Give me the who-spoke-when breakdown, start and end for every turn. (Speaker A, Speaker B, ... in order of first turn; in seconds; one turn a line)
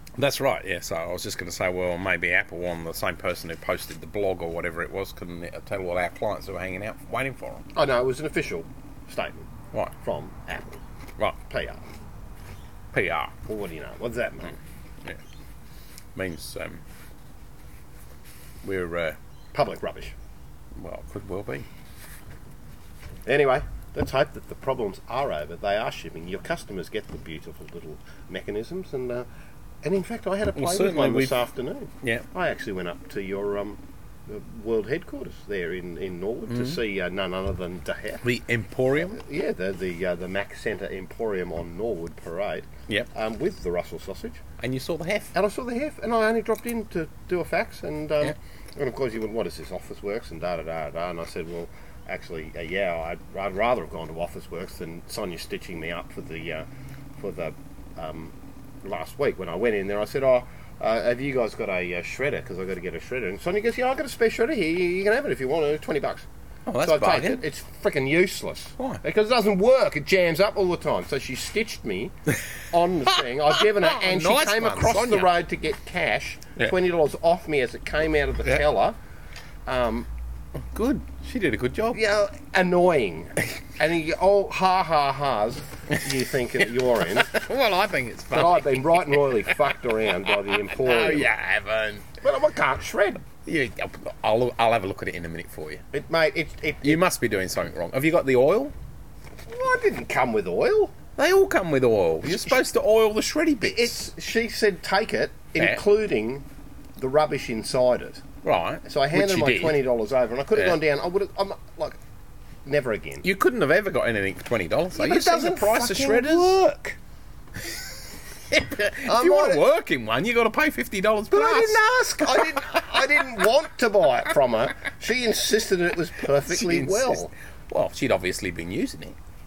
Speaker A: 0.2-7.6
Speaker B: 7.7-10.8
Speaker B: 11.3-11.8
Speaker A: 12.9-13.3
Speaker B: 13.4-14.6
Speaker A: 16.1-16.8
Speaker A: 18.6-19.2
Speaker B: 19.5-20.1
Speaker A: 20.8-21.7
Speaker B: 23.2-29.2
Speaker B: 29.8-38.2
Speaker A: 30.5-31.4
Speaker A: 36.5-36.8
Speaker A: 38.2-39.2
Speaker B: 39.0-44.4
Speaker A: 44.6-45.3
Speaker B: 45.3-56.7
Speaker B: 57.2-66.2
Speaker A: 66.7-67.4
Speaker B: 66.8-79.0
Speaker A: 73.5-75.3
Speaker B: 79.7-80.1
Speaker A: 80.6-82.0
Speaker B: 81.9-87.4
Speaker A: 87.1-89.7
Speaker B: 88.3-91.3
Speaker A: 90.2-92.1
Speaker B: 92.2-93.2
Speaker A: 93.3-95.8
Speaker B: 95.9-97.0
Speaker A: 96.8-98.7
Speaker B: 99.5-100.9
Speaker A: 101.2-104.0
Speaker B: 102.2-102.6
Speaker B: 103.6-106.4
Speaker B: 107.0-108.2
Speaker A: 108.4-109.8
Speaker B: 108.8-112.0
Speaker B: 112.6-113.2
Speaker A: 113.2-116.8
Speaker B: 114.9-117.0
Speaker A: 117.6-117.9
Speaker A: 118.5-123.0
Speaker B: 119.0-119.6
Speaker B: 121.3-127.3
Speaker A: 126.4-129.2